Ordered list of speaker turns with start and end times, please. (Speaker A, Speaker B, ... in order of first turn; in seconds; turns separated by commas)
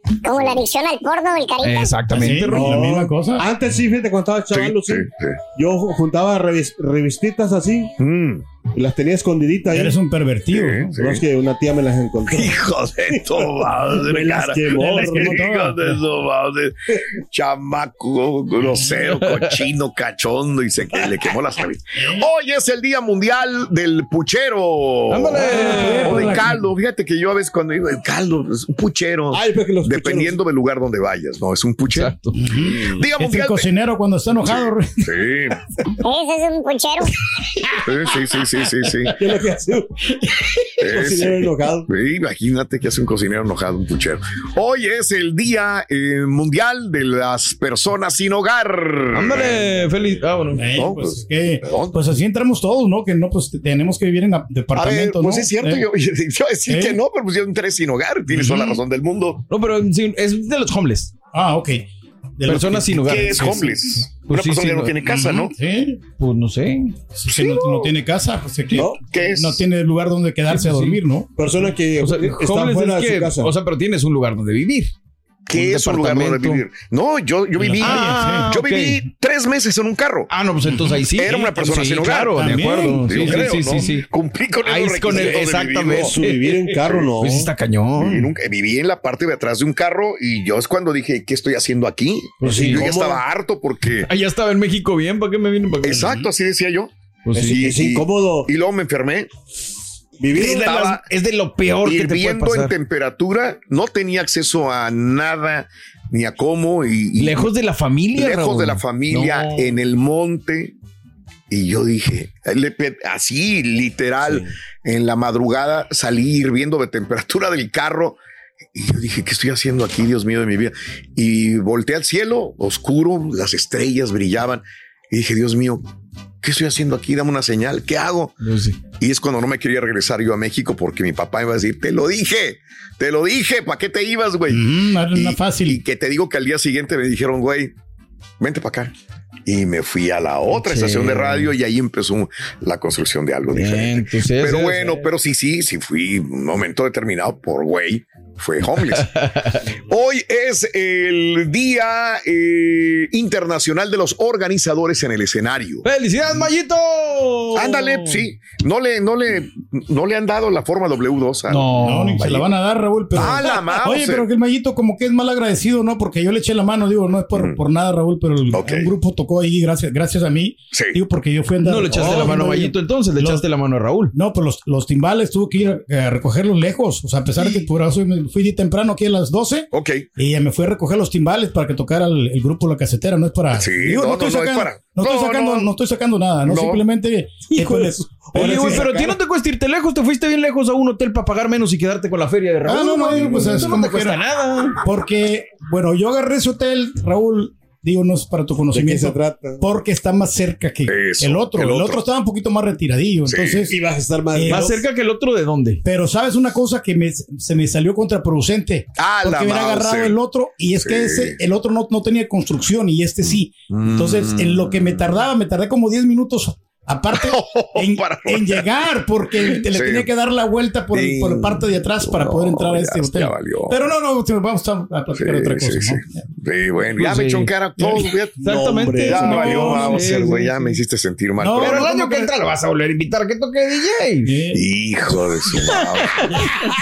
Speaker A: 0.2-2.0, Speaker B: 1.6-2.8, Speaker C: 2.1-3.4, Speaker D: 2.5-7.9, Speaker E: 4.5-5.4, Speaker E: 8.0-8.4, Speaker D: 8.7-10.0, Speaker C: 9.7-10.9, Speaker E: 10.5-11.2, Speaker D: 11.0-12.6, Speaker E: 12.3-33.7, Speaker D: 13.1-15.5, Speaker C: 14.8-16.0, Speaker C: 22.0-22.2, Speaker B: 25.1-26.4, Speaker C: 25.5-26.6, Speaker D: 29.3-30.4, Speaker B: 31.9-32.4, Speaker C: 32.4-34.9, Speaker E: 34.4-35.6, Speaker A: 36.0-37.2, Speaker E: 37.8-39.1, Speaker D: 39.2-39.9, Speaker D: 40.8-41.9, Speaker E: 40.8-49.7, Speaker B: 49.1-50.6, Speaker C: 50.6-55.8, Speaker E: 50.8-52.0, Speaker E: 54.7-59.5, Speaker C: 56.7-57.0, Speaker B: 58.3-58.8, Speaker B: 59.5-61.1, Speaker C: 61.3-61.9, Speaker C: 62.4-63.8, Speaker B: 62.5-65.0, Speaker E: 63.0-65.5, Speaker C: 65.1-66.0, Speaker B: 66.2-67.0, Speaker C: 67.2-71.3, Speaker E: 67.3-67.9, Speaker E: 69.1-69.6, Speaker B: 70.5-71.0, Speaker D: 71.4-73.5, Speaker B: 71.6-74.9, Speaker E: 75.5-80.3, Speaker B: 75.5-76.6, Speaker C: 77.6-78.5, Speaker B: 77.8-79.0, Speaker B: 80.3-84.1, Speaker E: 81.1-86.2, Speaker C: 82.3-83.8, Speaker B: 84.6-88.3, Speaker D: 85.1-87.5, Speaker E: 86.8-87.1, Speaker E: 88.0-94.1, Speaker B: 92.4-92.8, Speaker D: 92.4-93.2, Speaker B: 94.0-96.2, Speaker E: 95.8-99.3, Speaker B: 97.2-97.8, Speaker D: 97.3-98.5, Speaker D: 100.2-100.7, Speaker B: 100.3-102.7, Speaker E: 100.4-101.0, Speaker E: 101.8-107.5, Speaker B: 107.2-109.8, Speaker E: 108.1-110.8, Speaker E: 111.5-118.2, Speaker E: 118.8-125.9, Speaker E: 126.4-128.4, Speaker B: 128.4-128.8, Speaker E: 129.0-137.7, Speaker C: 134.5-135.8, Speaker E: 138.4-138.9, Speaker E: 139.5-149.1, Speaker B: 140.5-141.5, Speaker B: 143.5-145.1, Speaker B: 148.9-149.6, Speaker E: 149.7-155.9, Speaker B: 155.8-158.2, Speaker E: 157.6-162.5, Speaker B: 161.5-162.2, Speaker C: 161.8-173.4, Speaker E: 163.2-164.3, Speaker E: 167.3-167.6, Speaker E: 168.5-168.9, Speaker E: 170.7-171.0, Speaker B: 171.7-174.1, Speaker C: 174.1-189.1, Speaker E: 179.7-180.1, Speaker E: 183.5-185.7, Speaker E: 186.4-186.8, Speaker D: 187.5-189.0, Speaker B: 188.3-194.8, Speaker C: 192.7-194.2, Speaker D: 193.1-193.6, Speaker C: 194.8-203.8, Speaker D: 198.7-199.6, Speaker E: 200.9-202.1, Speaker E: 203.2-203.7, Speaker D: 203.7-204.7, Speaker C: 204.3-204.8, Speaker B: 204.5-205.8, Speaker C: 205.8-226.2, Speaker E: 209.0-210.2, Speaker E: 210.8-211.4, Speaker E: 213.2-215.3, Speaker E: 217.1-218.7, Speaker E: 219.3-220.1, Speaker E: 220.9-223.8, Speaker E: 225.2-231.9, Speaker B: 227.0-227.5, Speaker B: 228.4-230.8, Speaker D: 228.5-229.9, Speaker C: 229.2-230.2, Speaker C: 231.4-232.3, Speaker B: 231.6-234.3, Speaker C: 234.3-234.6, Speaker E: 234.5-236.4